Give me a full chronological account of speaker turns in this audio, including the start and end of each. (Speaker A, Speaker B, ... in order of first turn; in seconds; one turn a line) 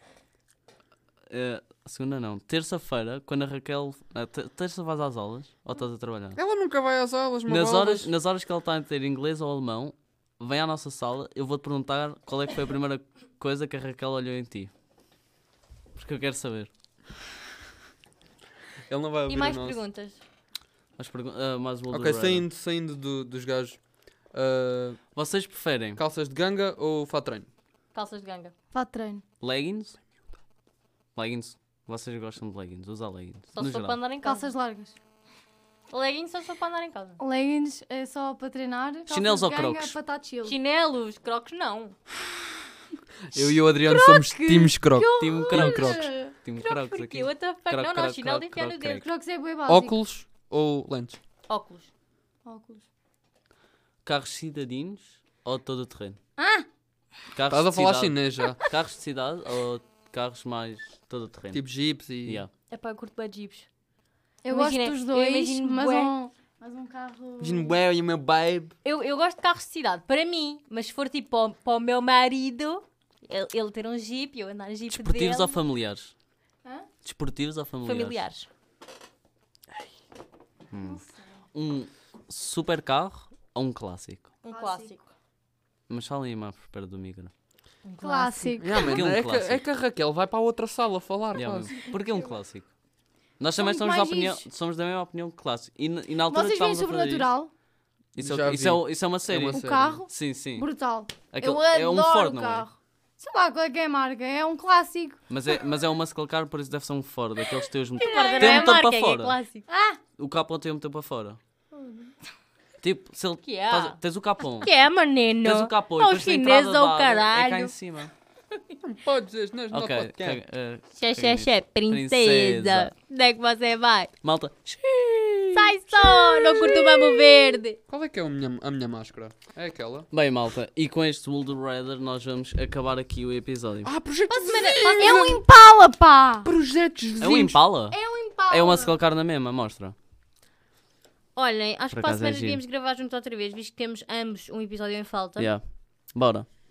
Speaker A: 1.3-6.4
Speaker B: 6.3-8.1
Speaker A: 7.5-14.7
Speaker A: 15.9-16.7
Speaker B: 18.9-19.8
Speaker C: 19.3-20.2
Speaker A: 21.0-22.5
Speaker B: 21.9-25.0
Speaker A: 25.1-26.0
Speaker B: 26.0-27.5
Speaker C: 27.9-28.5
Speaker D: 28.7-29.2
Speaker A: 29.4-30.0
Speaker A: 31.1-34.0
Speaker C: 33.5-34.5
Speaker D: 34.2-35.0
Speaker C: 35.9-37.2
Speaker D: 37.2-40.6
Speaker A: 39.1-40.0
Speaker C: 40.4-42.0
Speaker B: 43.3-46.1
Speaker D: 43.8-46.3
Speaker A: 45.2-49.1
Speaker C: 46.6-49.0
Speaker D: 49.0-50.0
Speaker B: 49.7-51.2
Speaker C: 51.5-51.9
Speaker D: 52.5-52.9
Speaker A: 54.0-56.2
Speaker D: 56.4-56.7
Speaker A: 57.3-61.6
Speaker B: 57.5-58.6
Speaker B: 61.5-62.5
Speaker A: 62.2-62.5
Speaker C: 62.7-63.7
Speaker D: 64.4-67.8
Speaker C: 64.5-66.2
Speaker B: 67.4-68.8
Speaker C: 68.8-75.6
Speaker A: 74.9-76.1
Speaker A: 77.0-78.2
Speaker C: 77.8-78.5
Speaker A: 80.7-84.3
Speaker D: 80.7-81.4
Speaker C: 84.4-85.1
Speaker D: 84.5-84.9
Speaker A: 85.9-87.3
Speaker C: 87.8-88.7
Speaker D: 88.0-89.0
Speaker B: 88.6-91.8
Speaker A: 88.8-89.6
Speaker A: 91.3-92.7
Speaker D: 91.8-92.4
Speaker A: 93.4-97.3
Speaker D: 93.6-94.5
Speaker D: 96.3-97.5
Speaker A: 98.2-100.7
Speaker B: 98.2-100.0
Speaker D: 99.5-105.3
Speaker A: 101.3-102.7
Speaker A: 105.3-109.4
Speaker D: 108.0-108.8
Speaker C: 108.0-109.7
Speaker D: 109.7-110.0
Speaker A: 110.2-111.4
Speaker D: 111.7-112.2
Speaker A: 112.8-114.7
Speaker C: 113.4-114.0
Speaker C: 114.6-117.8
Speaker A: 115.4-118.1
Speaker B: 118.8-120.4
Speaker A: 119.7-122.9
Speaker C: 121.0-124.1
Speaker A: 124.2-125.7
Speaker C: 125.5-127.8
Speaker D: 126.1-127.6
Speaker B: 127.9-130.1
Speaker A: 130.1-133.9
Speaker B: 133.8-135.4
Speaker C: 134.3-135.4
Speaker D: 135.0-136.5
Speaker B: 136.4-137.6
Speaker A: 137.2-139.9
Speaker D: 137.9-139.0
Speaker C: 141.3-145.5
Speaker A: 141.9-142.6
Speaker A: 145.4-146.5